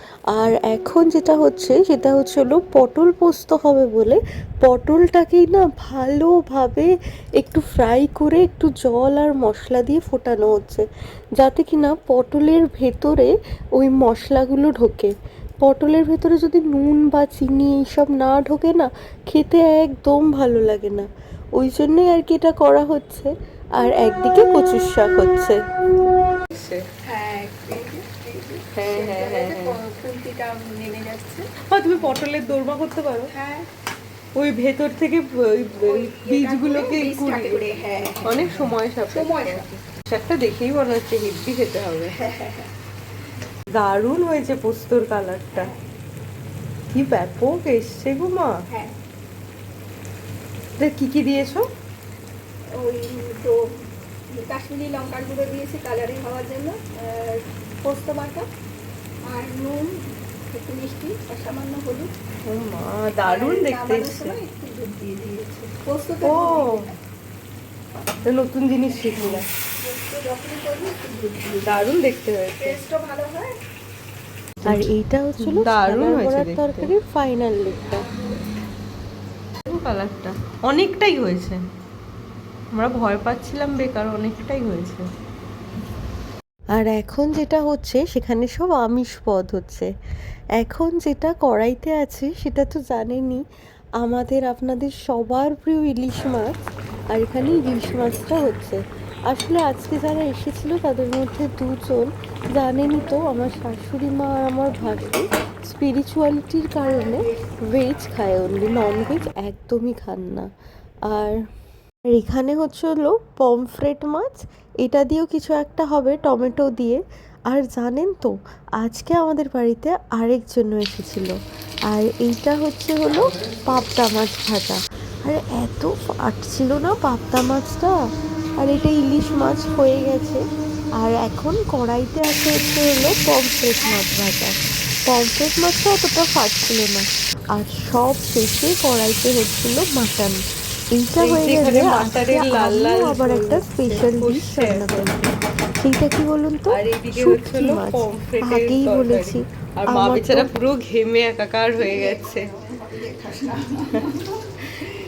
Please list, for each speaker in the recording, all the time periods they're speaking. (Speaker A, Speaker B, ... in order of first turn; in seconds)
Speaker A: 0.3-15.1, 15.6-25.6, 74.7-78.1, 86.7-89.9, 90.6-93.4, 94.0-96.5, 97.1-110.5, 111.1-111.4, 112.1-121.3, 121.9-128.0, 128.6-130.4, 131.0-140.4, 140.9-150.5
Speaker B: 26.5-26.9, 28.7-29.8, 31.7-33.3, 34.4-37.6, 38.2-42.2, 43.7-45.7, 46.9-48.6, 50.8-51.7, 62.5-64.4, 66.2-66.9, 68.2-69.5, 71.6-72.8, 75.4-76.9, 79.6-81.6, 82.7-85.0, 141.2-145.1, 146.7-152.5
Speaker C: 27.0-31.5, 33.3-33.7, 35.9-39.7, 42.1-42.7, 52.7-53.7, 54.3-58.5, 59.2-62.1, 63.2-67.0, 68.9-71.9, 72.6-73.6, 77.9-78.3, 106.8-107.5, 151.8-154.4